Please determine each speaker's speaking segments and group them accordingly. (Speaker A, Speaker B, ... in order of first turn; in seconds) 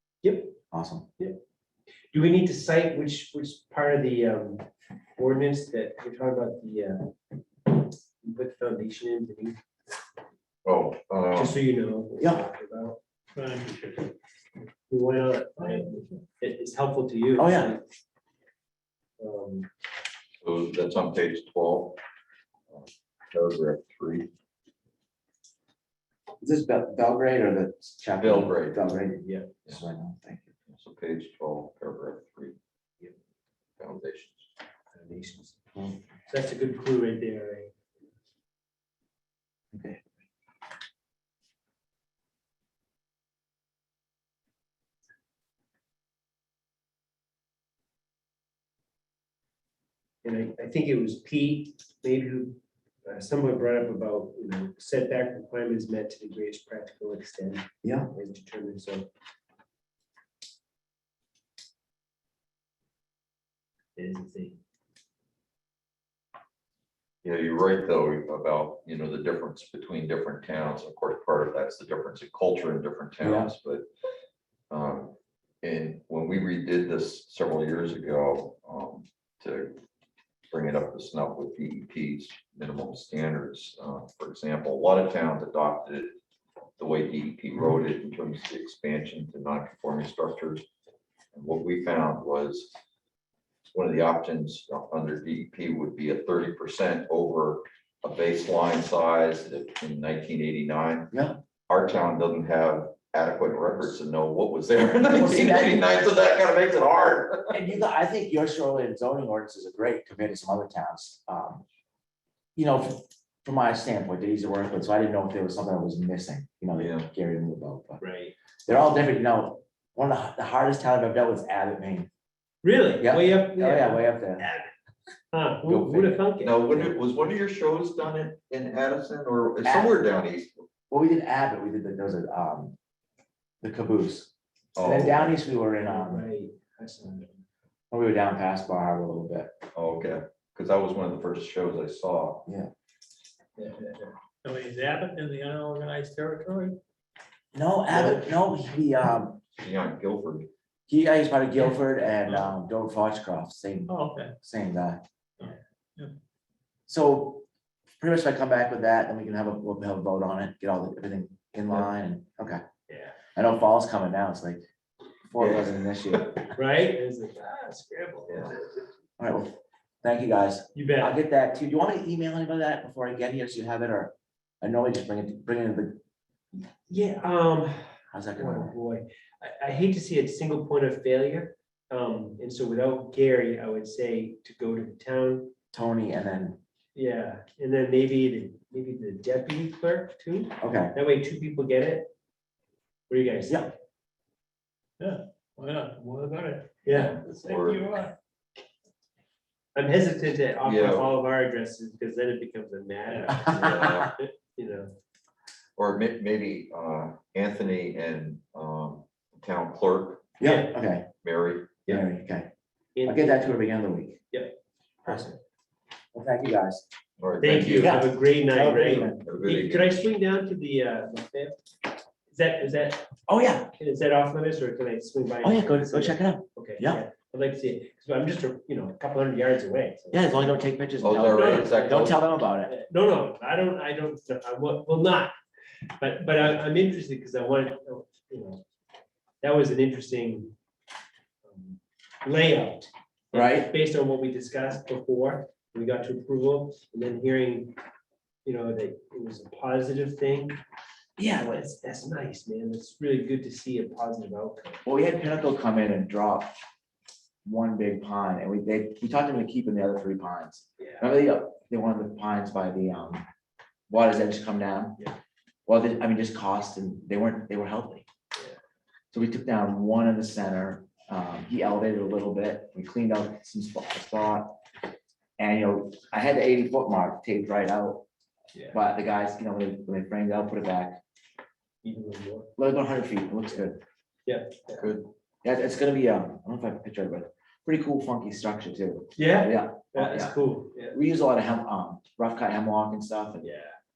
Speaker A: 0.2-0.6, 2.1-4.7, 5.2-7.1, 7.7-9.6, 11.3-13.0, 14.9-17.8, 19.2-19.7, 29.2-29.5, 34.9-35.6, 36.2-37.7, 50.2-59.1, 64.0-64.6, 118.0-118.3, 122.6-124.7, 125.3-126.7, 134.8-137.4, 143.6-144.2, 147.9-148.2, 162.9-163.2, 166.5-168.8, 170.7-171.2, 176.9-185.5, 186.9-192.1, 193.1-193.7, 196.8-197.2, 199.7-204.9, 210.4-210.8, 212.9-213.5, 214.3-215.4, 217.4-221.6, 222.3-223.1, 223.7-235.3, 236.0-238.6, 239.4-240.5, 241.5-247.8, 248.4-250.6, 251.3-254.8, 260.8-261.1, 278.5-278.8, 281.8-282.5, 284.2-284.9, 289.1-291.0, 293.4-293.8
Speaker B: 0.7-1.1, 12.2-12.4, 17.4-17.8, 26.4-30.5, 39.7-40.0, 57.8-58.1, 73.2-73.5, 101.1-101.4, 105.1-106.2, 107.5-111.6, 112.5-118.0, 118.7-122.1, 123.0-124.5, 125.7-126.2, 129.6-130.0, 130.9-132.8, 133.6-134.3, 134.8-136.2, 137.9-139.5, 142.4-142.7, 147.5-149.4, 150.9-155.0, 156.9-157.4, 158.0-162.6, 163.3-164.6, 165.2-166.5, 169.2-176.0, 178.1-178.7, 185.7-186.6, 190.6-190.9, 203.3-204.0, 210.4-211.1, 211.9-212.5, 213.1-214.2, 215.1-215.3, 216.1-216.8, 217.7-219.2, 223.3-223.7, 225.4-227.0, 230.1-232.7, 243.3-243.7, 251.2-251.6, 254.8-256.5, 257.4-263.2, 263.9-265.0, 265.6-268.1, 269.1-274.6, 275.4-278.0, 278.7-281.0, 282.6-283.8, 285.4-293.4
Speaker C: 10.6-11.5, 20.4-22.0, 22.7-24.3, 28.2-28.8, 30.7-32.6, 33.8-34.5, 67.2-73.8, 74.7-79.8, 80.5-86.1, 86.8-90.7, 91.3-92.7, 93.7-101.1, 101.7-107.8, 116.7-117.1, 126.4-130.6, 134.7-135.3, 139.7-142.4, 149.6-150.5, 196.9-198.0, 200.6-201.1, 203.5-204.1, 205.8-210.3, 211.2-211.8, 217.2-218.1, 219.0-220.1, 231.0-232.2, 284.8-285.0
Speaker D: 13.3-14.1, 15.6-16.2, 144.4-146.8, 153.9-154.3, 155.4-156.1, 195.0-198.1